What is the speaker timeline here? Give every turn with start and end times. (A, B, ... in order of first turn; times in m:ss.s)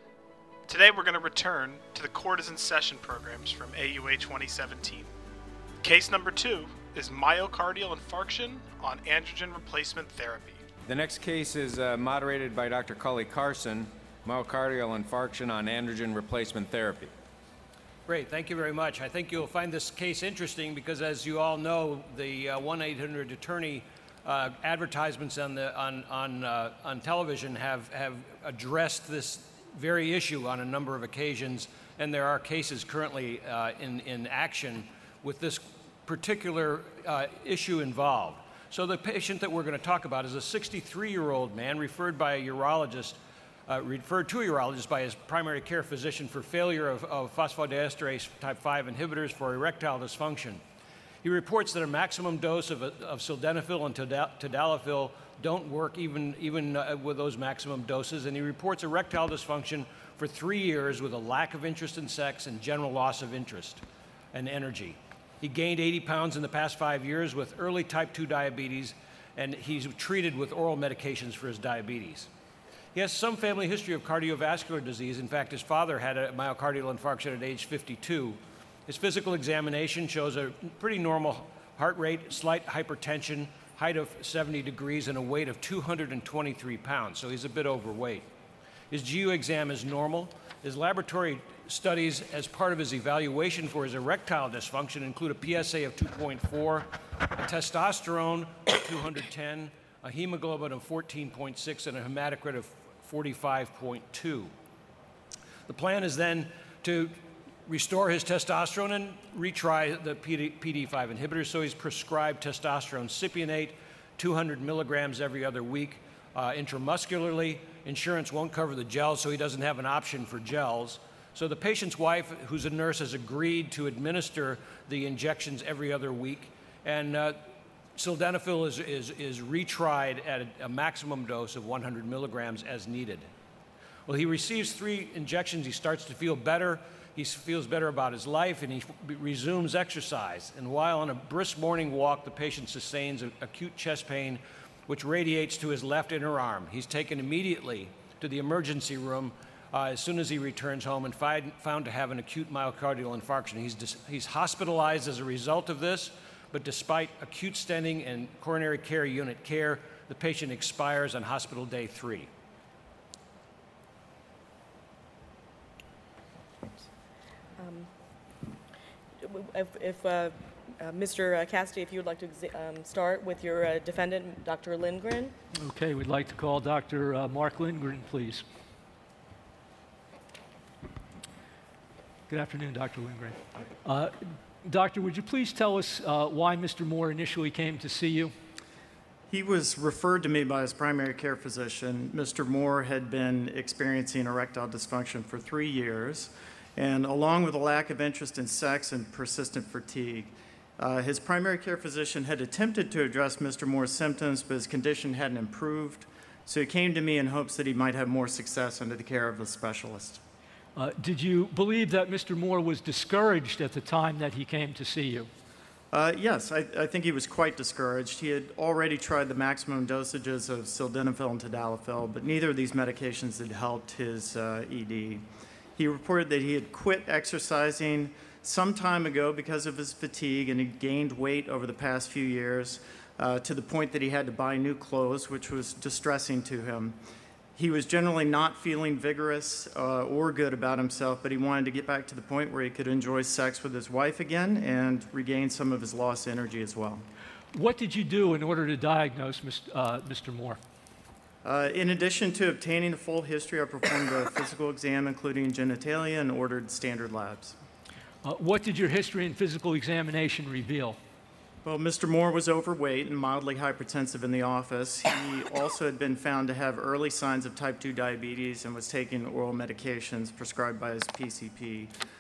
0:00.7-0:05.1 A
0:05.8-0:10.6 A
0:10.8-0:17.1 B
0:18.1-0:50.6 C
0:51.2-1:12.3 C
1:13.0-1:28.3 C
1:28.9-1:44.5 C
1:45.7-2:07.4 C
2:08.0-2:13.3 C
2:14.1-2:42.3 C
2:47.6-2:47.9 D
2:49.2-2:55.3 D
2:55.6-2:58.4 E
3:02.3-3:08.3 E
3:09.3-3:30.2 F
3:30.8-3:35.3 E
3:35.9-3:45.2 F
3:45.8-3:57.0 F
3:57.6-4:07.1 F
4:07.5-4:10.6 E
4:11.4-4:17.6 F
4:18.2-4:21.0 E
4:21.6-4:31.9 F